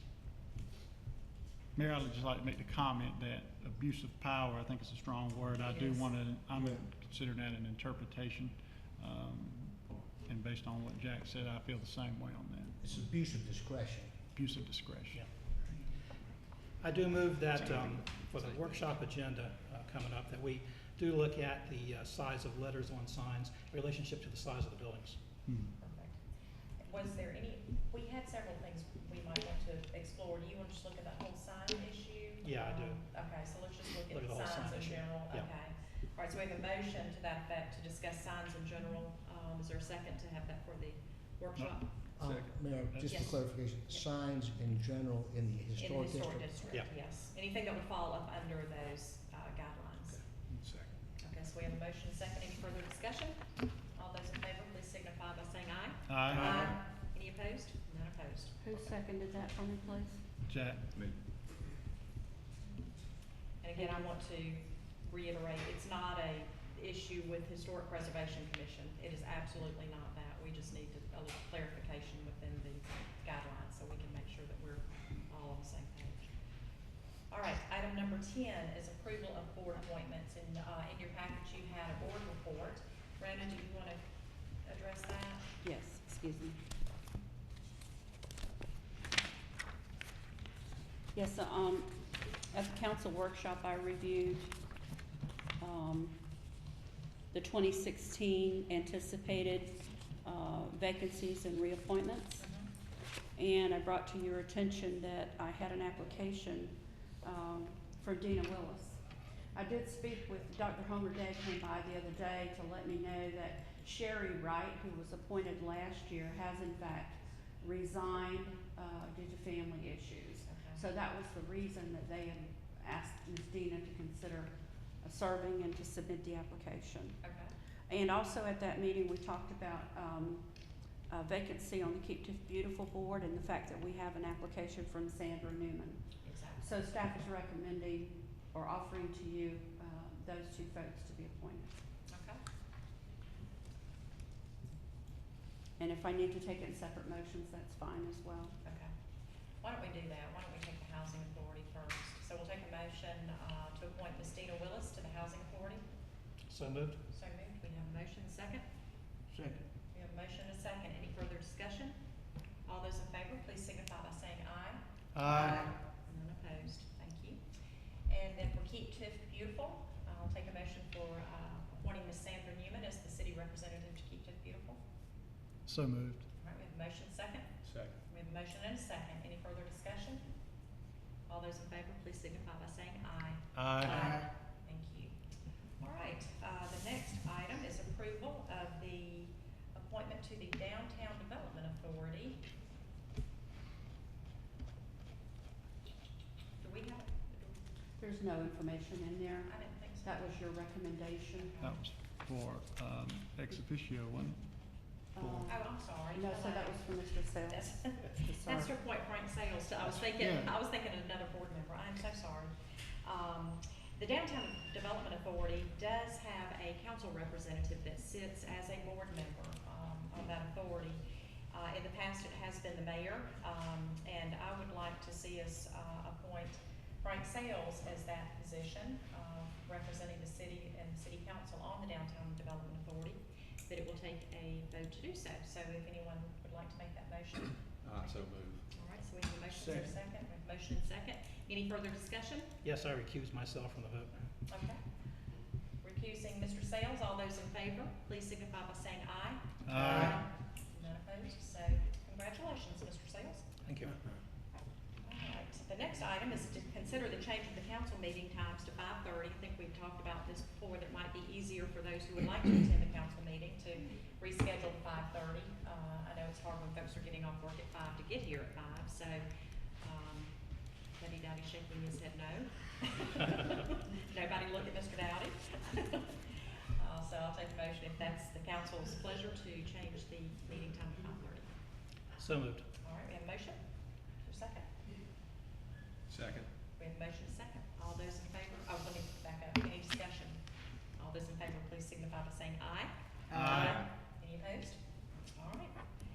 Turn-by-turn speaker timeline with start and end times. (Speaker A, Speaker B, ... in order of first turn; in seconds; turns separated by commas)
Speaker A: 1.7-12.8, Speaker B: 5.6-6.1, Speaker C: 6.5-6.8, Speaker C: 12.8-14.2, Speaker A: 14.3-15.6, Speaker D: 15.1-15.8, Speaker D: 16.8-25.2, Speaker A: 17.5-18.5, Speaker A: 25.4-25.7, Speaker B: 25.8-26.2, Speaker B: 26.8-42.1, Speaker D: 32.4-33.0, Speaker D: 34.1-35.5, Speaker C: 42.1-46.6, Speaker E: 42.2-42.5, Speaker A: 42.9-43.3, Speaker B: 43.0-44.0, Speaker B: 45.8-50.2, Speaker D: 50.5-50.9, Speaker E: 50.5-50.8, Speaker B: 51.2-58.6, Speaker A: 56.1-56.5, Speaker F: 58.6-60.2, Speaker A: 60.5-60.9, Speaker B: 63.6-76.3, Speaker F: 63.7-64.1, Speaker B: 77.3-84.0, Speaker B: 84.6-85.5, Speaker F: 85.6-86.6, Speaker F: 91.1-94.6, Speaker F: 95.6-96.3, Speaker F: 97.3-102.5, Speaker B: 102.4-102.7, Speaker F: 103.3-127.2, Speaker B: 120.4-120.8, Speaker B: 127.2-127.5, Speaker F: 127.9-141.7, Speaker B: 136.2-136.7, Speaker B: 142.1-142.4, Speaker F: 145.8-148.6, Speaker B: 148.6-148.9, Speaker B: 149.6-155.8, Speaker D: 156.5-157.0, Speaker B: 157.1-158.7, Speaker B: 159.9-162.0, Speaker B: 162.6-167.4, Speaker A: 165.2-165.6, Speaker B: 168.1-174.8, Speaker A: 175.7-176.2, Speaker B: 176.4-180.3, Speaker E: 177.6-178.0, Speaker B: 181.3-185.1, Speaker A: 183.5-184.1, Speaker B: 185.8-192.4, Speaker B: 196.6-197.6, Speaker F: 198.0-201.5, Speaker B: 199.4-200.4, Speaker B: 201.3-201.8, Speaker A: 201.6-205.4, Speaker F: 205.1-208.8, Speaker B: 205.4-242.5, Speaker C: 210.2-210.5, Speaker E: 237.8-238.8, Speaker E: 239.6-240.0, Speaker D: 242.6-244.2, Speaker B: 244.5-244.8, Speaker B: 245.8-253.5, Speaker A: 249.7-250.2, Speaker D: 249.7-250.1, Speaker D: 253.6-254.0, Speaker B: 255.0-269.3, Speaker B: 269.8-281.5, Speaker D: 282.2-282.6, Speaker B: 282.8-284.7, Speaker E: 286.1-286.5, Speaker B: 286.8-290.4, Speaker B: 290.9-295.8, Speaker E: 293.3-293.9, Speaker A: 293.3-293.8